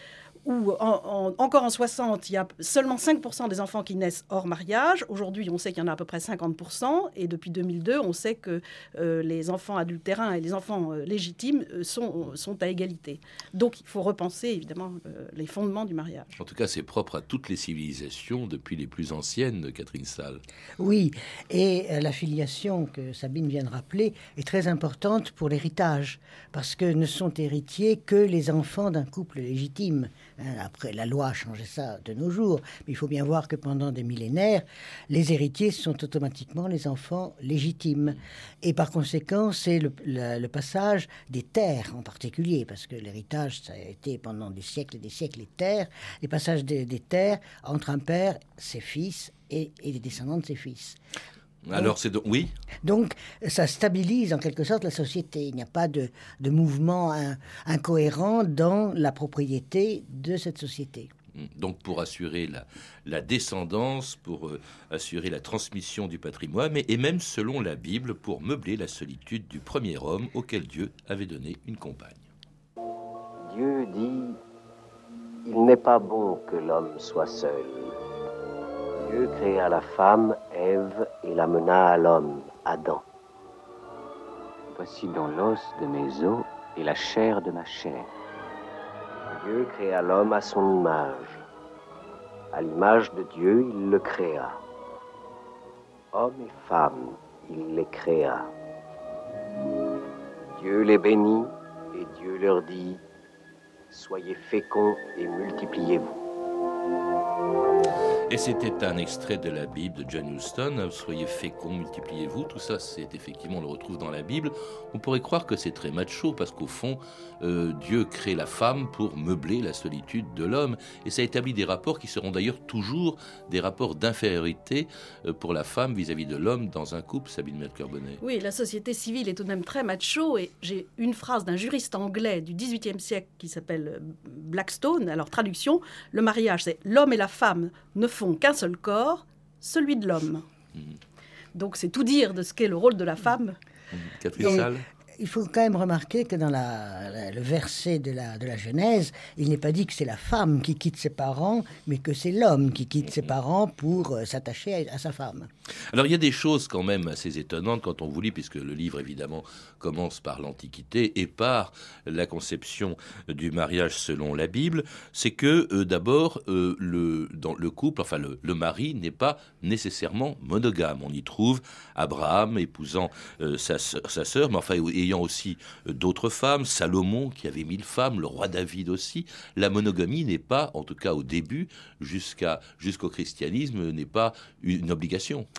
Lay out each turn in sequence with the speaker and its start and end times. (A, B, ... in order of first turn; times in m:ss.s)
0:00.4-0:16.4 A
0:16.4-0:20.4 B
0:20.8-0:51.0 C
0:51.6-0:52.5 B
0:52.8-1:01.1 C
1:01.3-1:12.3 B
1:13.4-1:14.4 D
1:15.4-1:18.0 D
1:19.0-1:23.0 D
1:24.7-1:28.1 E
1:29.3-1:31.4 D
1:32.5-1:34.6 D
1:36.1-1:38.5 D
1:40.5-1:43.0 D
1:43.9-1:46.2 D
1:48.3-2:08.2 B
2:08.2-2:20.4 A
2:21.5-2:23.6 A
2:23.9-2:24.8 B
2:24.4-2:35.5 C
2:35.9-3:05.5 B